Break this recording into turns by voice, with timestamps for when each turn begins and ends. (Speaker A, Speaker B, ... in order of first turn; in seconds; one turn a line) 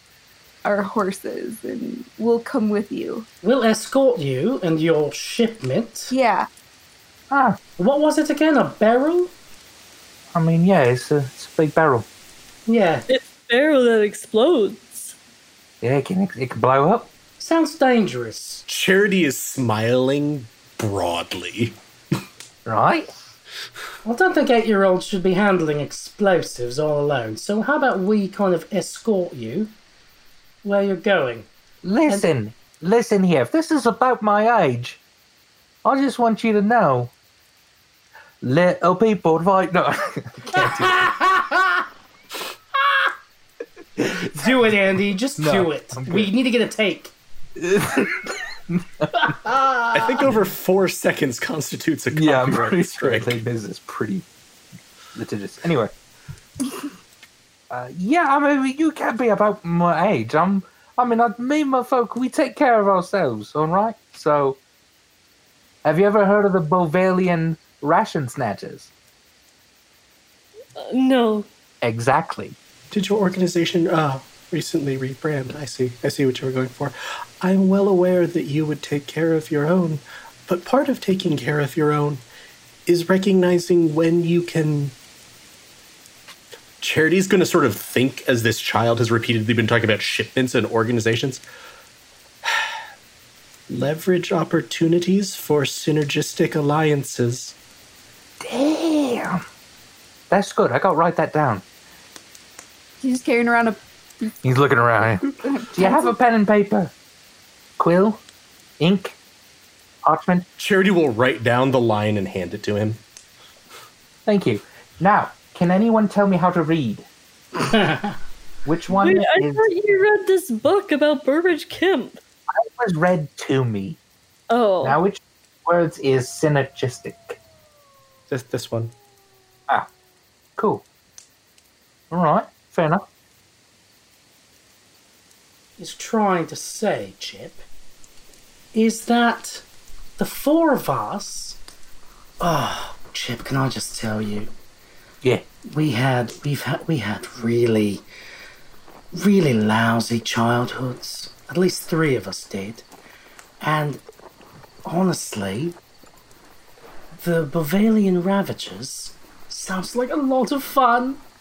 Speaker A: 0.6-3.3
Speaker B: 3.4-6.1
Speaker A: 6.1-6.5
Speaker C: 7.3-7.6
Speaker B: 7.8-9.3
Speaker C: 10.3-12.0
Speaker B: 12.7-13.1
Speaker D: 13.1-15.1
Speaker C: 15.8-17.1
Speaker B: 17.4-18.6
Speaker E: 18.7-21.8
Speaker C: 22.6-23.1
Speaker B: 24.0-29.7
Speaker B: 30.6-31.5
Speaker C: 31.8-35.0
Speaker C: 35.8-37.1
Speaker C: 38.4-41.1
Speaker B: 40.6-41.7
Speaker C: 44.0-44.4
Speaker B: 44.3-47.1
Speaker C: 45.4-46.3
Speaker C: 47.6-49.3
Speaker B: 49.2-50.0
Speaker E: 49.9-53.3
Speaker C: 52.1-54.2
Speaker C: 55.1-55.9
Speaker C: 57.7-64.6
Speaker C: 65.8-68.9
Speaker D: 70.8-71.5
Speaker C: 71.8-72.5
Speaker E: 72.9-82.2
Speaker E: 82.8-84.9
Speaker E: 86.8-91.4
Speaker E: 93.7-97.5
Speaker C: 98.4-99.4
Speaker C: 100.3-101.6
Speaker A: 103.0-104.3
Speaker C: 104.4-106.9
Speaker A: 105.4-106.1
Speaker C: 107.8-108.2
Speaker C: 108.8-109.2
Speaker C: 110.0-110.5
Speaker E: 110.6-113.0
Speaker C: 114.2-117.0
Speaker B: 117.6-118.1
Speaker C: 118.6-119.7
Speaker D: 118.9-122.2
Speaker C: 122.5-124.0
Speaker D: 124.5-125.0
Speaker C: 124.8-127.4
Speaker E: 128.3-128.9
Speaker C: 130.6-130.8
Speaker C: 132.1-133.0
Speaker B: 135.8-137.6
Speaker B: 138.7-139.6
Speaker B: 140.2-141.6
Speaker B: 142.4-144.5
Speaker B: 145.7-148.0
Speaker B: 149.1-152.8
Speaker B: 153.6-154.0
Speaker B: 154.8-155.8
Speaker B: 157.2-161.2